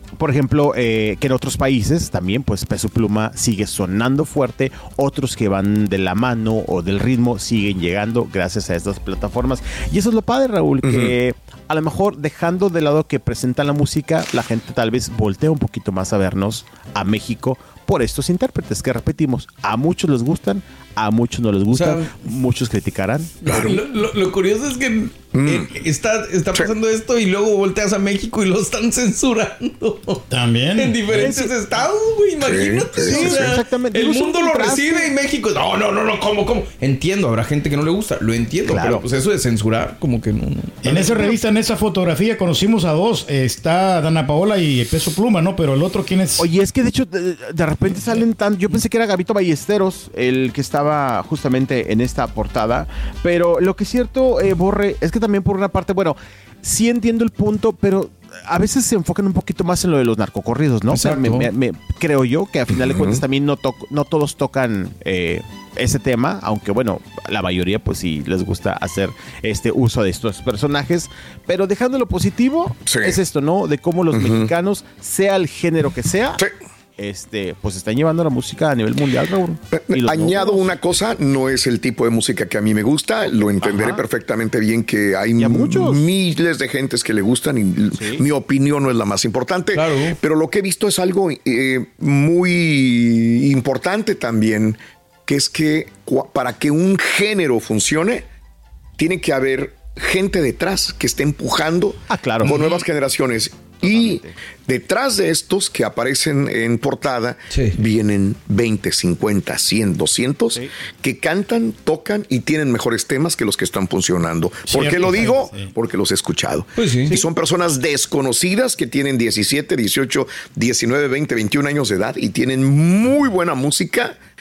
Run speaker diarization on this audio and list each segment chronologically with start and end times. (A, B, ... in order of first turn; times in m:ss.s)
0:00.2-0:23.8 A
0:10.8-0:11.1 B
0:21.7-0:22.1 C
0:23.5-0:23.8 B
0:23.5-0:30.2 C
0:25.3-0:25.7 B
0:30.3-0:31.0 D
0:30.8-0:41.1 C
0:31.1-0:31.5 A
0:32.4-0:33.5 B
0:33.0-0:35.1 A
0:38.6-0:39.0 A
0:40.8-0:46.5 D
0:40.9-0:41.3 A
0:46.4-1:16.4 A
1:00.9-1:01.5 C
1:02.7-1:03.2 B
1:12.9-1:13.2 B
1:14.1-1:14.5 B
1:17.0-1:20.7 A
1:19.7-1:38.2 B
1:23.3-1:24.0 A
1:25.4-1:26.0 A
1:27.9-1:28.2 A
1:29.7-1:30.2 C
1:39.0-2:04.2 B
1:42.1-1:42.6 A
1:43.8-1:44.4 A
1:47.5-1:47.8 C
1:54.7-1:55.3 C
1:54.7-1:55.7 D
1:56.8-1:57.2 C